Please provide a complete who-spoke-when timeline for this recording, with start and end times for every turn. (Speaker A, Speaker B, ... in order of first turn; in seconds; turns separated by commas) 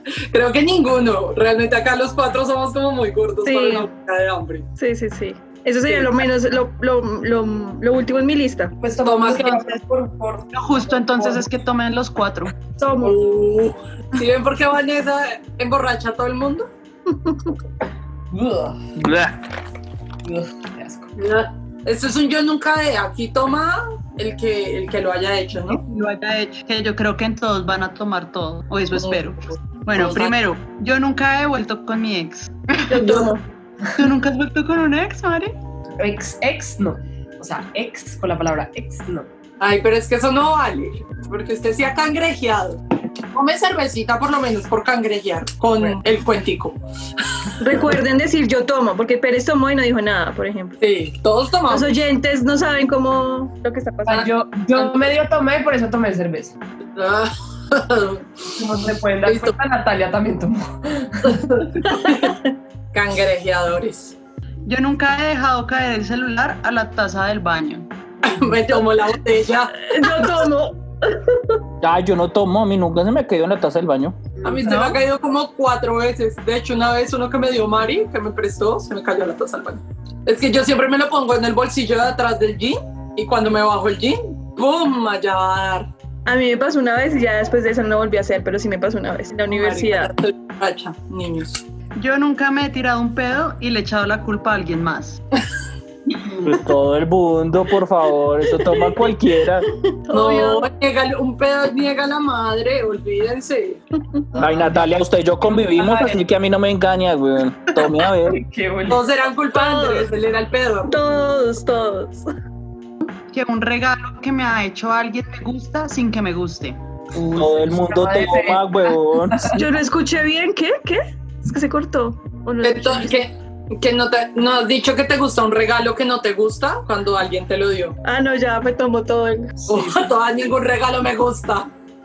Speaker A: 0.3-4.7, Speaker B: 3.5-3.9, Speaker B: 4.8-8.7, Speaker A: 5.9-6.2, Speaker C: 8.8-11.4, Speaker A: 9.0-9.7, Speaker D: 10.5-12.5, Speaker B: 12.8-13.2, Speaker A: 13.0-16.7, Speaker B: 17.1-17.5, Speaker C: 18.3-18.9, Speaker E: 19.0-19.4, Speaker C: 20.2-21.1, Speaker A: 21.2-25.8, Speaker D: 25.7-33.3, Speaker A: 28.9-29.2, Speaker A: 29.9-30.3, Speaker B: 32.9-33.4, Speaker D: 34.0-35.6, Speaker C: 36.0-39.3, Speaker A: 39.6-42.8, Speaker A: 43.3-46.8, Speaker B: 47.6-50.8, Speaker A: 50.8-52.0, Speaker B: 51.7-54.9, Speaker C: 54.1-56.5, Speaker A: 57.0-58.3, Speaker C: 58.5-61.8, Speaker A: 59.2-59.6, Speaker B: 61.8-62.5, Speaker A: 61.9-62.4, Speaker A: 62.9-64.2, Speaker D: 64.7-67.9, Speaker A: 68.2-70.3, Speaker B: 69.8-71.4, Speaker E: 71.8-74.2, Speaker A: 74.4-85.9, Speaker D: 74.7-75.0, Speaker B: 86.3-90.1, Speaker A: 89.5-91.6, Speaker D: 92.0-95.2, Speaker E: 96.4-99.7, Speaker B: 99.8-100.7, Speaker A: 100.1-103.8, Speaker C: 104.4-104.9, Speaker E: 104.4-108.4, Speaker C: 105.5-106.2, Speaker C: 108.2-109.1, Speaker A: 108.9-111.1, Speaker B: 109.5-110.1, Speaker B: 110.9-112.3, Speaker D: 113.0-116.8, Speaker C: 117.1-119.6, Speaker E: 117.3-119.6, Speaker B: 119.5-123.1, Speaker A: 122.6-128.0, Speaker B: 128.0-129.6, Speaker C: 129.7-130.0, Speaker A: 129.7-131.7